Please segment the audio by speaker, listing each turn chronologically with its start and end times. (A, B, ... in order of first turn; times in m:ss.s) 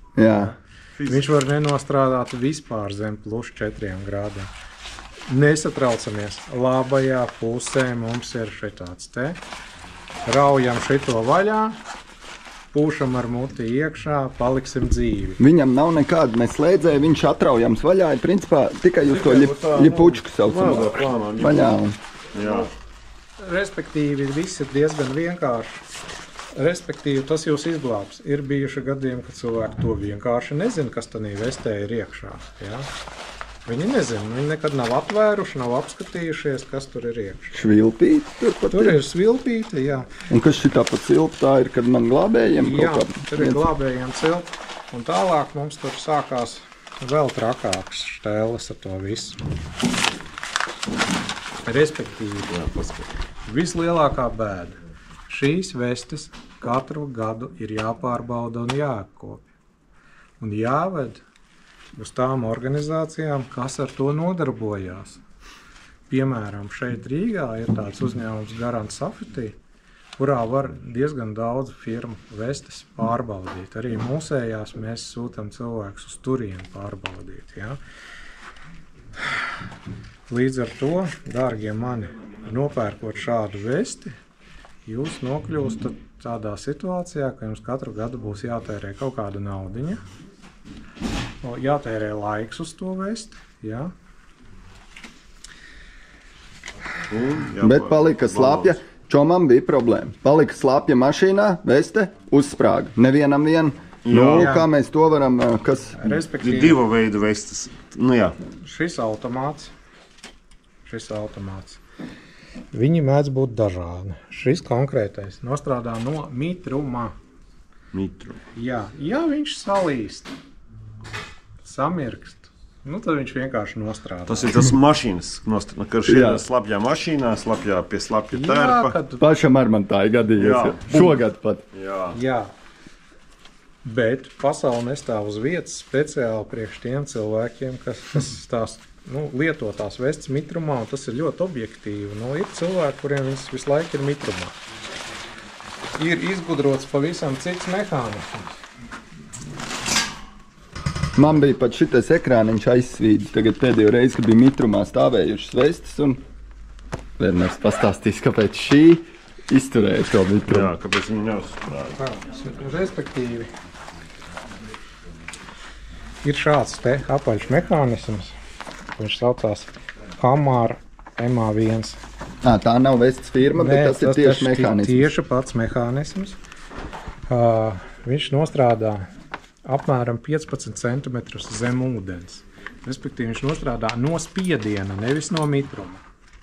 0:00.2-0:00.5 A
0:00.3-0:04.5 B
0:00.9-0:01.3 C
0:05.3-0:09.4 B
0:10.2-0:11.8 B
0:12.7-0:15.4 B
0:15.4-0:22.0 A
0:19.1-0:21.7 C
0:22.3-0:22.7 C
0:23.4-0:25.8 B
0:26.5-0:32.9 B
0:33.6-0:37.7 B
0:37.5-0:39.0 A
0:38.7-0:40.2 B
0:40.3-0:43.6 A
0:42.6-0:49.4 B
0:51.6-0:52.7 B
0:52.5-0:53.1 C
0:53.4-0:59.5 B
1:00.4-1:01.2 B
1:02.0-1:05.2 B
1:06.1-1:09.6 B
1:10.2-1:17.8 B
1:20.3-1:24.2 B
1:24.8-1:30.0 B
1:31.4-1:33.9 B
1:37.1-1:38.8 C
1:37.6-1:46.2 A
1:44.0-1:44.6 C
1:44.3-1:44.7 B
1:46.0-1:46.8 B
1:46.4-1:48.4 C
1:48.6-1:49.7 B
1:50.8-1:51.8 B
1:52.7-1:57.2 B
1:57.9-1:58.4 C
1:58.5-2:00.3 B
2:01.6-2:04.7 B
2:04.3-2:09.0 C
2:06.0-2:06.4 A
2:08.3-2:09.2 B
2:09.2-2:11.6 A
2:10.4-2:11.2 C
2:11.7-2:12.2 C
2:12.1-2:12.5 B
2:13.8-2:24.6 B
2:25.9-2:28.6 B
2:31.2-2:36.2 A
2:37.2-2:40.7 A
2:40.5-2:42.0 C
2:42.0-2:43.5 B
2:46.2-2:48.4 B
2:49.0-2:52.0 B
2:52.4-2:55.1 A
2:53.5-2:56.4 B
2:57.3-2:59.1 B
2:59.6-3:06.0 B